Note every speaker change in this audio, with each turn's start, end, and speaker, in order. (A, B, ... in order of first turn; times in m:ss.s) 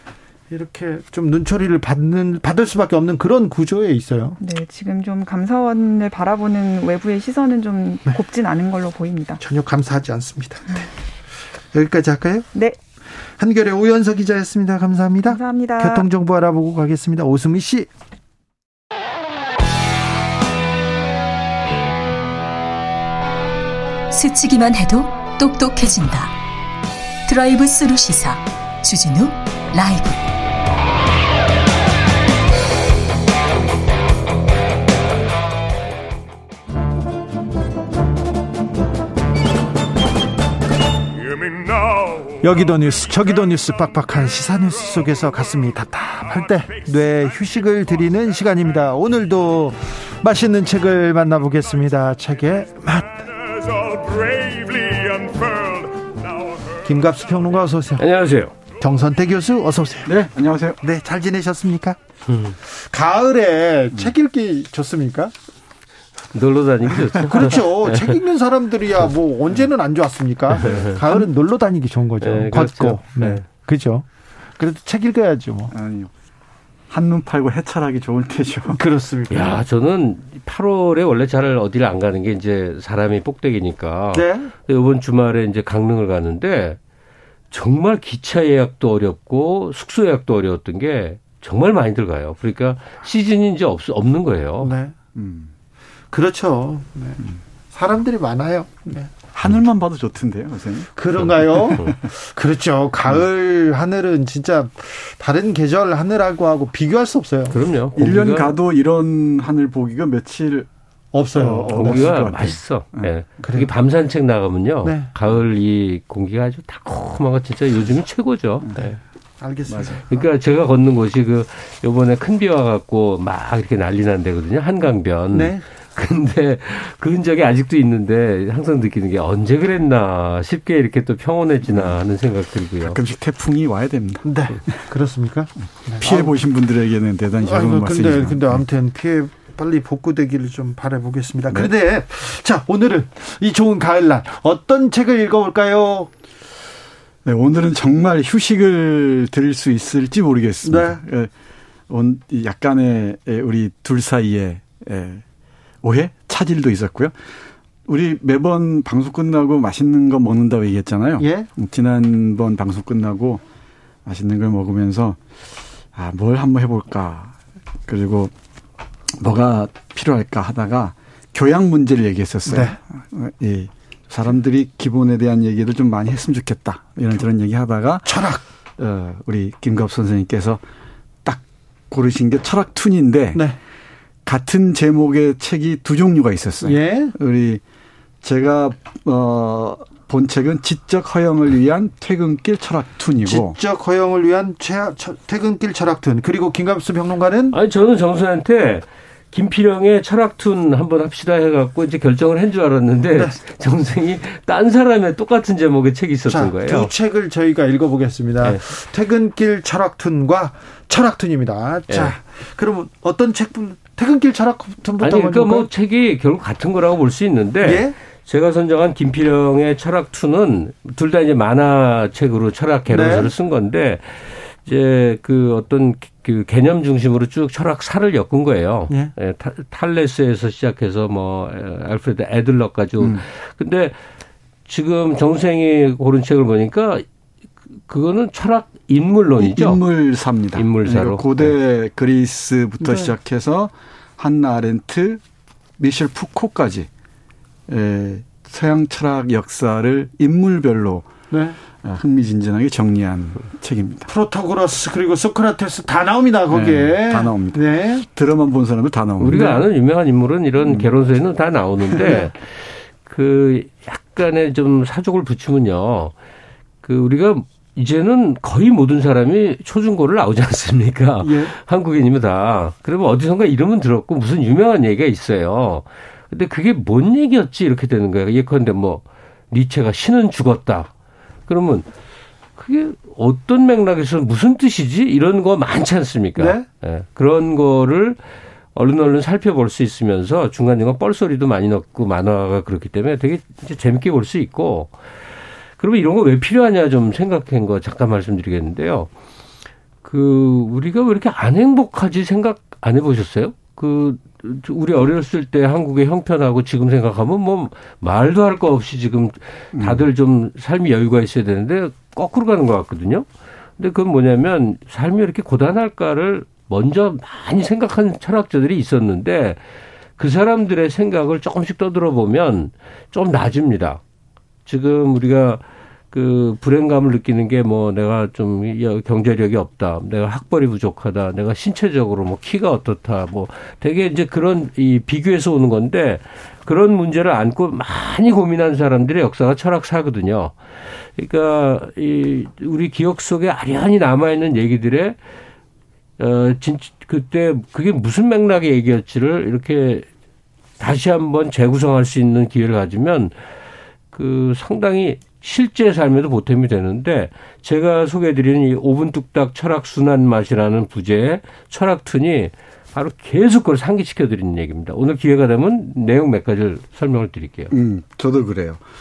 0:00.5-0:04.4 A
0:04.4-0:09.4 B
0:09.4-0:10.9 A
0:11.7-0:12.5 A
0:13.4-0:17.9 A
0:15.3-0:16.0 B
0:24.1-0:26.3 C
0:27.3-0:30.2 C
0:42.4-0:54.5 A
0:56.8-0:58.1 A
0:58.0-0:58.5 D
0:58.7-1:00.2 A
1:00.0-1:00.8 E
1:00.8-1:02.0 A
1:02.3-1:02.5 D
1:02.7-1:05.3 A
1:06.3-1:08.2 D
1:07.0-1:14.0 A
1:10.5-1:11.0 D
1:12.2-1:13.4 D
1:14.6-1:15.7 A
1:15.7-1:16.1 E
1:16.9-1:18.8 E
1:18.7-1:19.6 A
1:19.3-1:26.8 D
1:24.1-1:24.5 A
1:27.5-1:34.7 D
1:34.6-1:35.0 A
1:35.1-1:35.5 E
1:36.1-1:39.1 A
1:39.3-1:42.0 E
1:40.9-1:47.6 A
1:47.5-1:48.5 D
1:48.0-1:50.7 E
1:51.1-1:52.6 A
1:51.3-1:53.4 E
1:51.6-1:59.0 D
1:53.4-1:53.7 A
1:54.8-1:55.1 A
1:58.6-1:58.9 E
1:58.8-2:00.3 A
1:59.7-2:00.0 E
2:00.1-2:13.0 D
2:05.3-2:05.6 A
2:11.6-2:12.0 E
2:12.8-2:14.8 E
2:14.2-2:16.3 A
2:16.0-2:18.6 E
2:17.4-2:26.1 A
2:27.2-2:31.3 E
2:30.6-2:31.0 A
2:31.9-2:35.2 E
2:35.8-2:37.1 E
2:37.9-2:43.4 E
2:41.2-2:41.5 A
2:44.0-2:45.2 E
2:45.9-2:47.4 E
2:47.9-2:48.3 E
2:49.2-2:58.1 E
2:52.5-2:52.8 A
2:58.0-2:58.4 A
2:58.8-3:00.6 E
3:01.2-3:03.4 E
3:04.2-3:07.6 E
3:06.6-3:07.1 A
3:08.2-3:13.6 E
3:13.2-3:17.6 A
3:17.5-3:26.9 D
3:23.1-3:23.4 A
3:26.2-3:35.7 A
3:31.9-3:32.1 D
3:35.0-3:54.0 D
3:37.6-3:37.9 A
3:42.9-3:43.3 A
3:48.9-3:49.1 A
3:54.7-3:57.0 D
3:57.9-3:59.8 D
3:59.4-4:05.2 E
4:00.5-4:01.5 D
4:02.8-4:03.1 A
4:05.8-4:06.9 E
4:07.7-4:11.1 E
4:11.3-4:11.6 A
4:11.8-4:14.1 E
4:14.1-4:18.0 A
4:16.5-4:19.6 E
4:19.2-4:26.1 D
4:20.6-4:20.9 E
4:21.8-4:22.2 E
4:22.0-4:22.3 A
4:26.8-4:40.9 D
4:31.2-4:31.5 A
4:41.5-4:41.9 D
4:42.6-4:48.2 D
4:46.4-4:46.7 A
4:48.7-4:54.9 D
4:55.8-4:59.1 D
5:00.0-5:19.6 D
5:09.7-5:10.0 E
5:20.2-5:24.0 D
5:24.6-5:40.6 D
5:41.2-5:45.2 D
5:46.2-5:50.1 D
5:50.8-5:53.4 D
5:54.1-6:07.7 D
6:07.7-6:08.8 E